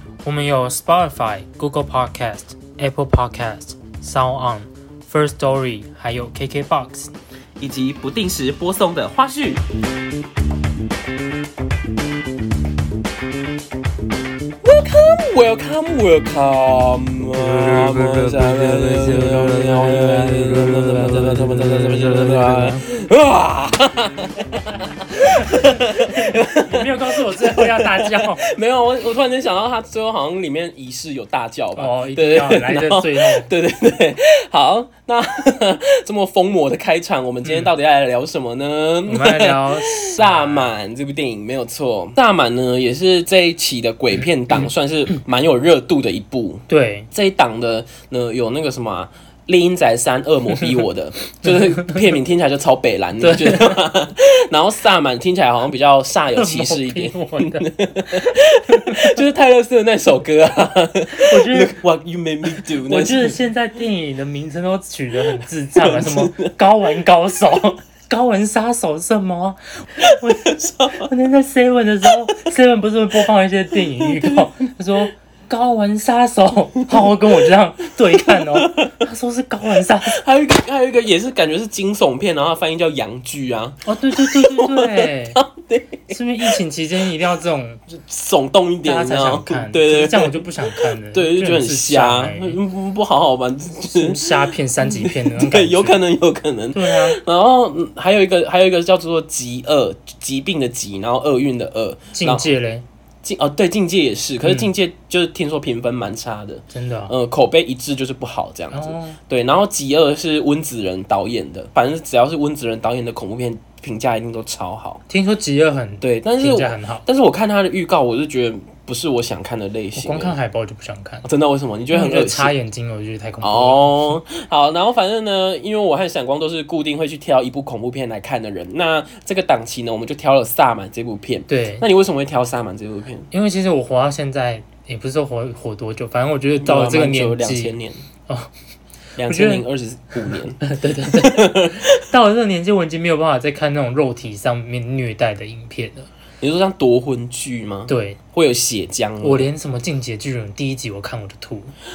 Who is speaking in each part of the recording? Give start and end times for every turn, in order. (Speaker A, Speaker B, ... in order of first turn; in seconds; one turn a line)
Speaker A: 0.2-7.1
Speaker B: 7.6-9.7
Speaker B: 14.6-63.4
Speaker A: 25.2-28.5
Speaker A: 31.8-33.5
Speaker A: 37.4-37.7
Speaker A: 39.1-40.7
Speaker A: 46.7-47.1
Speaker A: 51.4-52.0
Speaker A: 53.2-53.8
Speaker A: 56.3-59.2
Speaker A: 61.1-61.8
Speaker A: 62.5-80.2
Speaker B: 65.3-66.5
Speaker B: 70.0-71.1
Speaker B: 73.8-74.5
Speaker B: 76.9-77.2
Speaker B: 78.1-79.1
Speaker B: 80.1-86.6
Speaker A: 83.8-85.4
Speaker A: 86.1-87.9
Speaker B: 88.0-102.5
Speaker A: 88.8-92.6
Speaker A: 93.9-96.0
Speaker A: 96.7-97.2
Speaker A: 102.2-102.8
Speaker B: 103.2-115.0
Speaker A: 104.4-104.7
Speaker A: 106.7-107.1
Speaker A: 108.7-109.2
Speaker A: 115.1-117.0
Speaker B: 116.0-120.4
Speaker A: 120.0-121.3
Speaker B: 121.2-122.5
Speaker A: 121.9-124.2
Speaker B: 123.4-133.3
Speaker A: 131.5-131.9
Speaker A: 133.3-137.8
Speaker B: 136.6-138.0
Speaker B: 139.2-142.0
Speaker A: 139.3-139.7
Speaker A: 140.3-146.1
Speaker B: 146.4-149.5
Speaker A: 147.9-148.2
Speaker A: 149.2-151.7